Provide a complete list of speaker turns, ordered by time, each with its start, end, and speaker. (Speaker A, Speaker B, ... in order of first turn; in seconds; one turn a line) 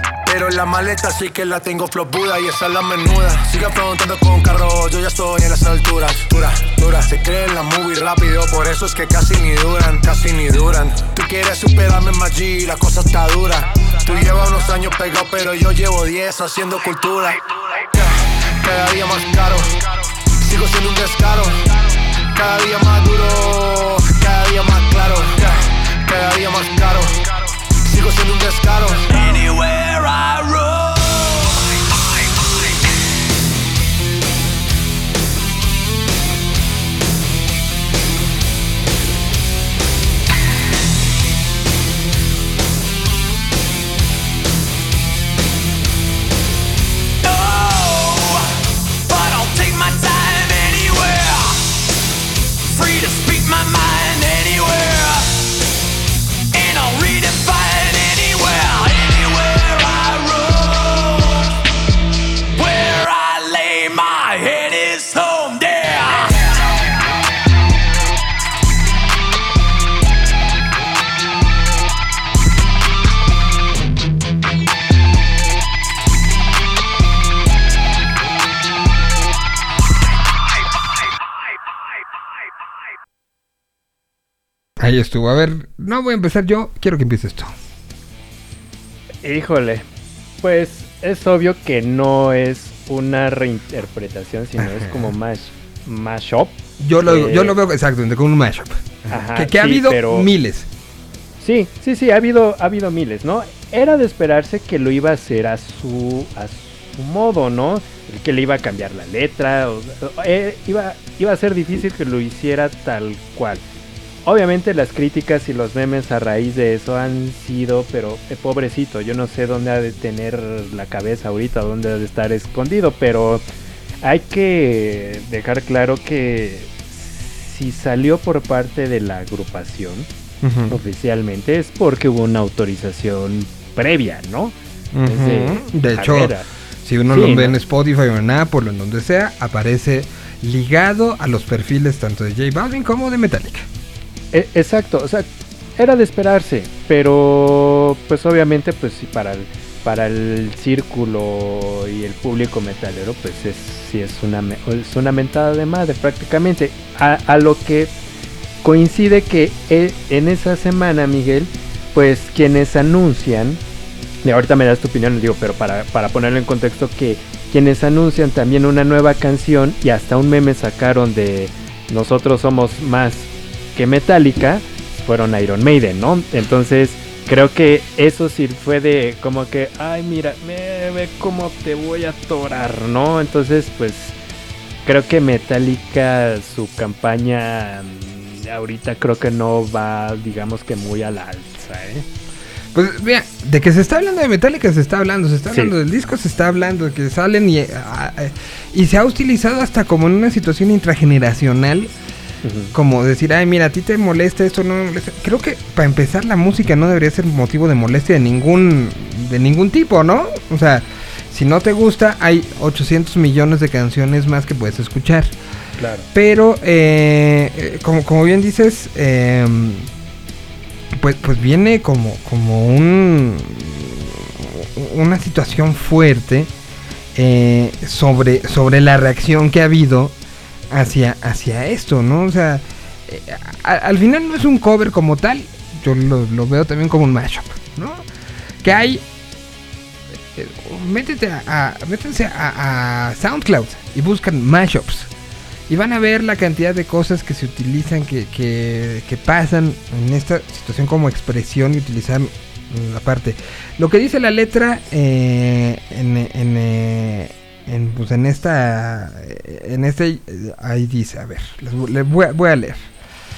Speaker A: 0.3-19.8
Speaker A: 20.4-21.7
Speaker A: 22.3-27.3
Speaker A: 27.8-29.5
Speaker B: 84.8-87.5
Speaker C: 89.2-89.9
Speaker C: 90.4-97.6
Speaker B: 94.6-95.1
Speaker B: 96.8-100.7
Speaker C: 99.1-100.3
Speaker C: 101.4-113.6
Speaker C: 114.2-123.4
Speaker C: 124.0-130.1
Speaker B: 130.4-130.8
Speaker C: 130.7-136.4
Speaker B: 134.9-143.7
Speaker C: 137.1-137.6
Speaker C: 144.3-157.9
Speaker C: 158.6-163.6
Speaker C: 164.2-184.2
Speaker C: 184.9-192.1
Speaker B: 192.7-201.9
Speaker C: 202.4-202.7
Speaker B: 202.7-215.3
Speaker C: 215.8-216.1
Speaker B: 216.1-219.9
Speaker B: 220.9-226.5
Speaker B: 227.2-230.1
Speaker B: 230.7-238.0
Speaker B: 238.6-239.0
Speaker B: 240.4-245.1
Speaker B: 245.7-262.9